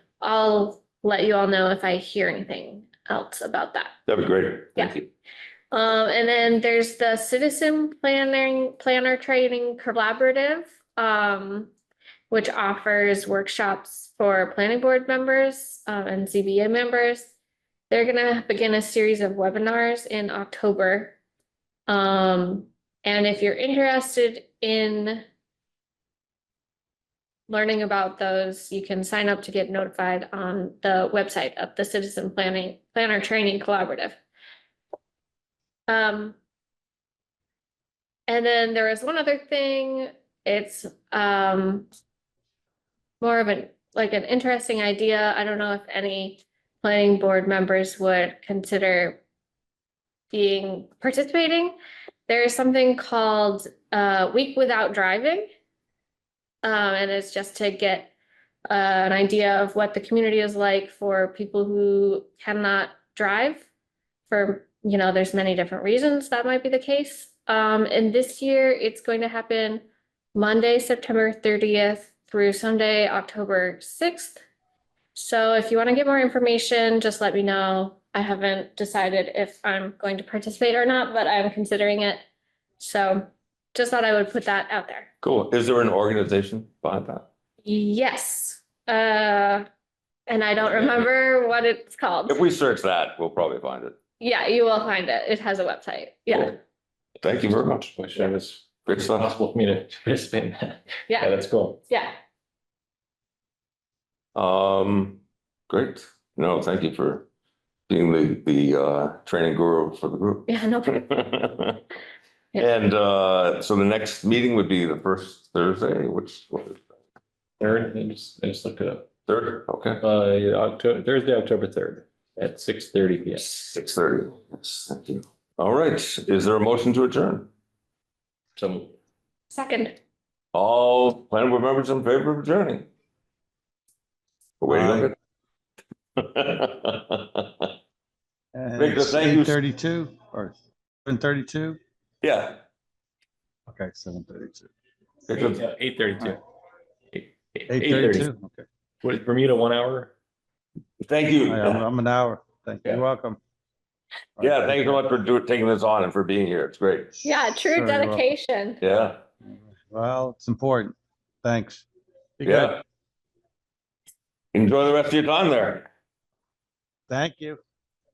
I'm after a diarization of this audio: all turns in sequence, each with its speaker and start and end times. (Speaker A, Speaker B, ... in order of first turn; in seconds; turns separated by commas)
Speaker A: 0.2-4.0, Speaker B: 4.1-5.1, Speaker A: 5.7-11.7, Speaker A: 12.3-17.3, Speaker A: 17.9-21.2, Speaker A: 21.9-25.2, Speaker A: 27.5-34.2, Speaker A: 35.9-36.4, Speaker A: 38.3-41.9, Speaker A: 43.2-49.2, Speaker A: 50.3-55.5, Speaker A: 56.6-58.1, Speaker A: 58.7-63.7, Speaker A: 64.3-74.4, Speaker A: 75.2-82.2, Speaker A: 82.8-85.1, Speaker B: 85.2-87.3, Speaker A: 87.7-89.7, Speaker A: 90.3-92.4, Speaker B: 92.3-94.0, Speaker A: 94.2-96.6, Speaker B: 97.2-97.9, Speaker C: 97.7-101.8, Speaker B: 98.9-99.3, Speaker A: 101.1-101.3, Speaker A: 101.9-102.2, Speaker B: 104.3-107.3, Speaker B: 107.9-111.8, Speaker A: 110.5-111.1, Speaker B: 112.6-116.8, Speaker C: 117.6-119.1, Speaker B: 119.3-120.0, Speaker C: 120.0-123.6, Speaker B: 123.4-127.5, Speaker C: 128.6-128.9, Speaker A: 129.5-130.0, Speaker B: 130.5-132.9, Speaker B: 134.6-135.1, Speaker D: 134.7-135.1, Speaker B: 136.2-137.7, Speaker D: 138.5-141.8, Speaker B: 138.8-139.6, Speaker B: 142.2-142.6, Speaker D: 143.7-144.7, Speaker B: 145.3-145.6, Speaker C: 145.3-146.4, Speaker C: 147.1-148.3, Speaker D: 147.7-148.6, Speaker C: 149.0-150.2, Speaker B: 151.0-151.8, Speaker D: 151.4-153.4, Speaker D: 154.4-155.0, Speaker B: 154.4-157.1, Speaker D: 157.2-158.2, Speaker A: 157.2-158.8, Speaker B: 158.8-159.2, Speaker D: 159.5-161.8, Speaker D: 162.4-162.8, Speaker B: 162.4-162.8, Speaker B: 164.5-165.9, Speaker D: 167.1-167.6